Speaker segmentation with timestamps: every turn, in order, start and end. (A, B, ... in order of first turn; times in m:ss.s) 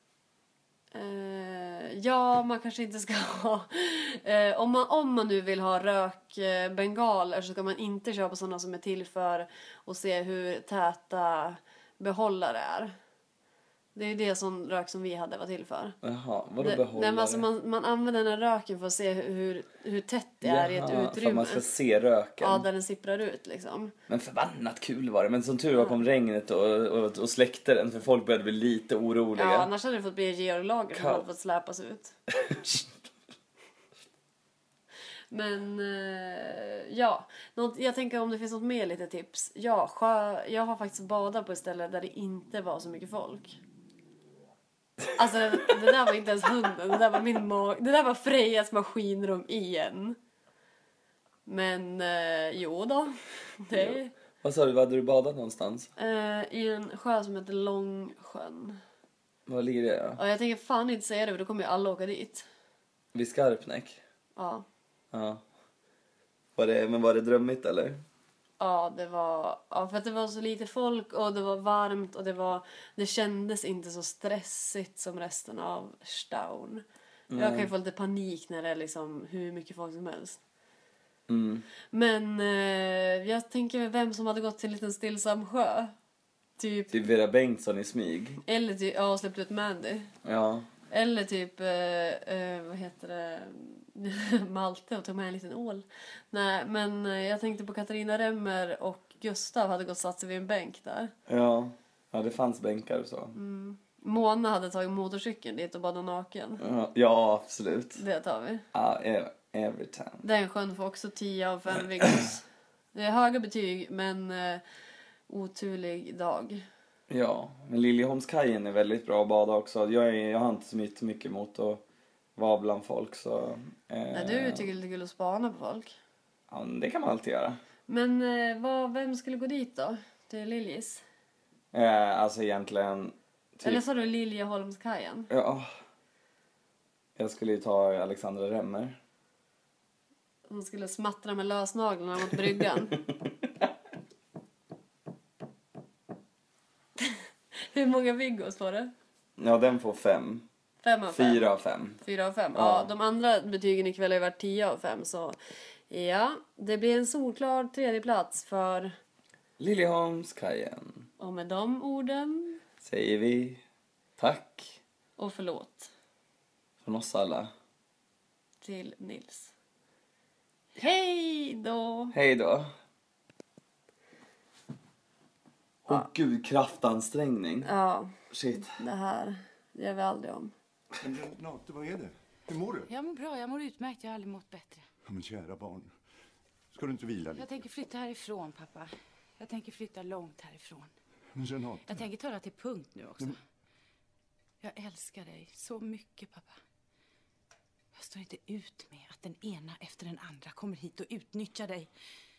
0:00.9-0:12.9 A
0:14.0-0:16.0 A
0:16.0-0:17.5 B
0:16.6-0:21.7 A
0:20.4-0:22.7 B
0:22.4-0:23.9 A
0:24.1-0:29.7 B
0:29.4-0:32.2 A
0:30.9-0:31.3 B
0:35.3-0:43.6 A
0:45.2-0:50.2 A
0:51.5-0:54.1 A
0:53.7-0:55.9 B
0:56.0-0:58.8 A
0:59.5-1:00.2 B
1:00.2-1:02.5 A
1:03.1-1:04.0 B
1:04.4-1:04.6 A
1:05.1-1:05.4 B
1:06.6-1:08.0 B
1:08.6-1:16.8 A
1:17.3-1:17.7 B
1:17.3-1:20.4 A
1:21.3-1:21.7 B
1:21.9-1:25.9 A
1:26.6-1:27.0 A
1:26.9-1:28.4 B
1:28.5-1:30.1 A
1:30.2-1:30.7 B
1:30.9-1:41.1 A
1:41.3-1:43.4 B
1:43.3-1:46.6 A
1:46.6-1:48.0 B
1:48.0-1:48.6 A
1:48.7-1:50.2 B
1:50.2-1:54.6 A
1:55.3-1:56.6 A
1:57.1-2:01.8 B
2:02.4-2:04.7 B
2:04.1-2:05.9 A
2:06.5-2:07.6 B
2:07.9-2:11.0 A
2:11.7-2:13.8 B
2:13.6-2:15.3 A
2:15.3-2:15.7 B
2:17.2-2:19.0 B
2:20.5-2:23.0 A
2:27.7-2:28.9 A
2:29.4-2:30.4 B
2:30.8-2:31.5 A
2:31.1-2:32.0 B
2:32.0-2:35.4 A
2:32.5-2:32.9 B
2:35.9-2:38.9 A
2:39.6-2:41.1 B
2:41.2-2:42.6 A
2:42.8-2:43.6 B
2:44.2-2:44.8 B
2:45.2-2:45.9 A
2:46.8-2:47.5 B
2:48.6-2:49.5 A
2:50.8-2:52.2 A
2:52.1-2:52.7 B
2:55.9-2:57.7 B
2:57.6-2:58.2 A
2:58.3-2:58.8 B
2:58.7-3:00.5 A
3:01.0-3:02.9 C
3:02.9-3:04.8 D
3:05.1-3:05.9 C
3:06.7-3:07.5 C
3:07.3-3:10.9 D
3:11.3-3:12.1 C
3:11.9-3:13.4 D
3:14.6-3:16.6 D
3:18.0-3:21.9 D